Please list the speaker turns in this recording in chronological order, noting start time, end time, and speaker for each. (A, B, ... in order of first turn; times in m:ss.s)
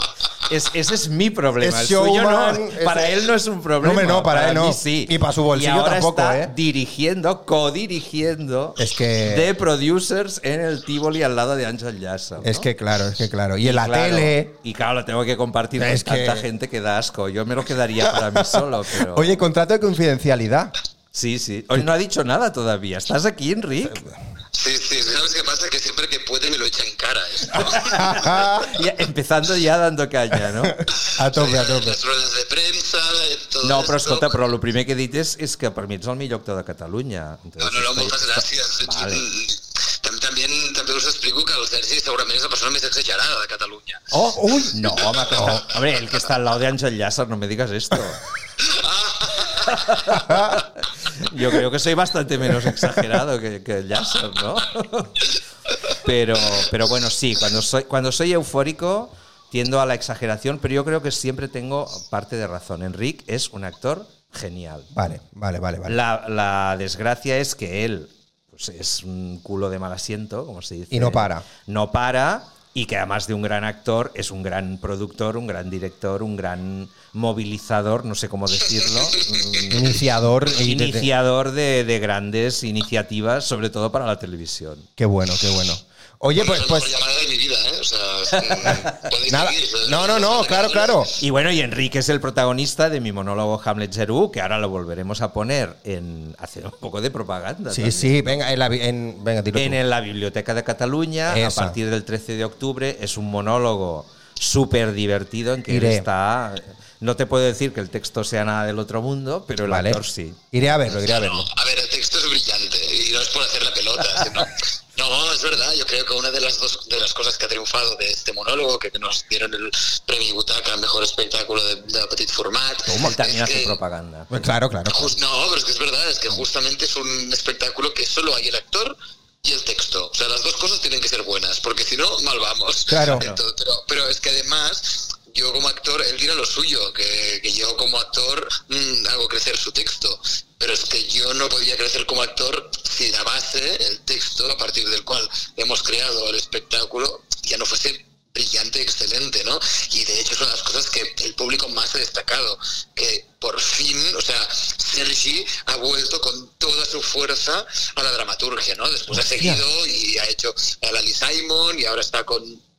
0:00.4-0:12.7 A
0:01.6-0:03.2 B
0:03.8-0:06.5 B
0:08.8-0:09.5 B
0:12.4-0:14.5 B
0:13.6-0:19.4 A
0:15.8-0:16.4 B
0:18.0-0:20.7 B
0:21.1-0:24.0 A
0:24.5-0:28.3 C
0:27.5-0:30.8 A
0:27.5-0:28.8 B
0:30.5-0:32.0 B
0:31.0-0:34.4 C
0:33.6-0:39.3 A
0:37.6-0:44.1 C
0:44.1-0:44.8 B
0:44.7-0:48.2 A
0:45.1-0:45.6 C
0:48.6-0:50.0 C
0:49.5-0:55.3 A
0:50.1-0:50.6 B
0:52.5-0:53.0 B
0:55.8-1:05.0 A
1:04.9-1:06.0 B
1:05.8-1:24.9 A
1:10.9-1:11.4 B
1:19.7-1:21.1 B
1:25.0-1:26.9 B
1:26.3-1:31.2 C
1:28.3-1:29.1 A
1:29.3-1:31.1 B
1:31.2-1:38.4 A
1:37.7-1:39.8 B
1:39.5-1:50.4 A
1:41.3-1:41.8 B
1:45.7-1:46.1 B
1:49.7-1:51.5 B
1:50.9-2:03.8 C
2:02.8-2:03.1 B
2:03.0-2:04.5 A
2:04.3-2:05.1 B
2:04.9-2:42.6 C
2:12.9-2:13.2 B
2:13.1-2:13.4 A
2:39.1-2:39.6 B